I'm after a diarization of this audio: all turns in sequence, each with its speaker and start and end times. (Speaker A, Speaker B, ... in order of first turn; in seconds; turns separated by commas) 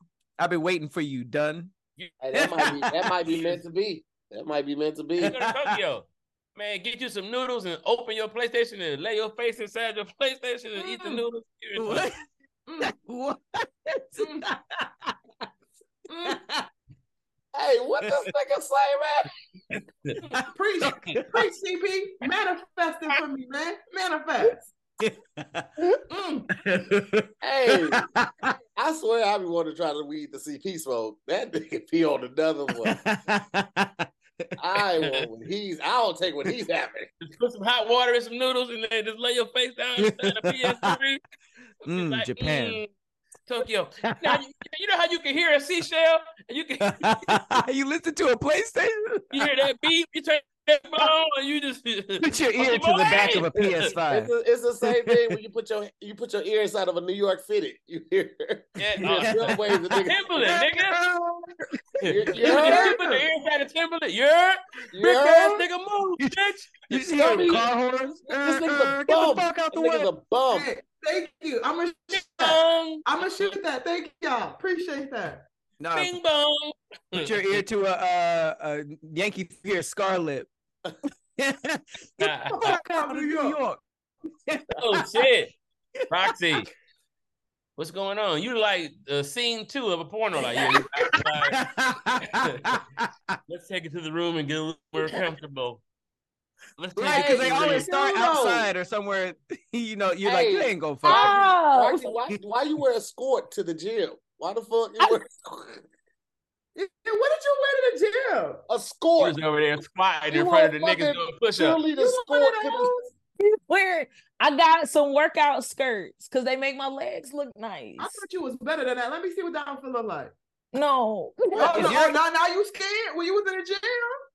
Speaker A: 0.4-1.7, Speaker B: 2.2-5.3, Speaker A: 2.3-3.1, Speaker A: 5.2-5.8, Speaker C: 5.2-12.1, Speaker D: 10.8-11.2, Speaker A: 11.8-12.2, Speaker D: 12.7-12.9, Speaker A: 12.8-15.1, Speaker D: 14.2-14.5, Speaker D: 16.1-16.4, Speaker A: 16.2-16.6, Speaker B: 17.5-19.3, Speaker A: 18.0-18.3, Speaker A: 20.2-21.4, Speaker D: 20.5-24.7, Speaker A: 25.0-26.0, Speaker D: 26.0-26.5, Speaker A: 26.5-28.5, Speaker B: 27.4-28.0, Speaker B: 28.8-33.0, Speaker A: 32.8-34.1, Speaker B: 34.6-37.1, Speaker C: 37.2-41.2, Speaker A: 40.0-41.0, Speaker C: 41.8-42.9, Speaker A: 41.9-42.8, Speaker C: 43.5-47.4, Speaker A: 44.1-44.4, Speaker A: 46.8-49.5, Speaker C: 49.3-53.9, Speaker A: 52.2-54.3, Speaker B: 53.9-60.3, Speaker A: 54.8-55.3, Speaker C: 58.8-59.5, Speaker A: 59.0-62.1, Speaker C: 60.0-61.0, Speaker C: 62.0-67.7, Speaker B: 62.1-63.0, Speaker D: 62.4-63.3, Speaker B: 64.9-65.7, Speaker A: 66.2-70.1, Speaker B: 67.1-67.7, Speaker B: 68.3-70.7, Speaker D: 70.5-75.5, Speaker C: 72.1-73.5, Speaker A: 75.8-76.1, Speaker C: 75.9-77.6, Speaker A: 77.1-80.5, Speaker A: 81.4-83.8, Speaker C: 82.2-82.8, Speaker D: 82.5-83.6, Speaker A: 84.5-85.3, Speaker C: 84.8-85.5, Speaker A: 86.0-86.7, Speaker C: 86.1-86.7, Speaker C: 87.8-91.6, Speaker A: 91.5-93.4, Speaker C: 92.2-92.8, Speaker C: 93.5-95.8, Speaker C: 96.8-97.9, Speaker A: 97.0-101.4, Speaker D: 97.6-98.7, Speaker B: 100.2-105.8, Speaker E: 101.0-102.1, Speaker D: 106.7-108.6, Speaker B: 108.7-109.4, Speaker C: 109.2-111.8, Speaker B: 110.3-112.9, Speaker D: 112.0-113.1, Speaker E: 113.4-118.2, Speaker D: 118.0-120.3, Speaker E: 120.7-122.1, Speaker D: 121.5-124.1, Speaker A: 121.6-122.2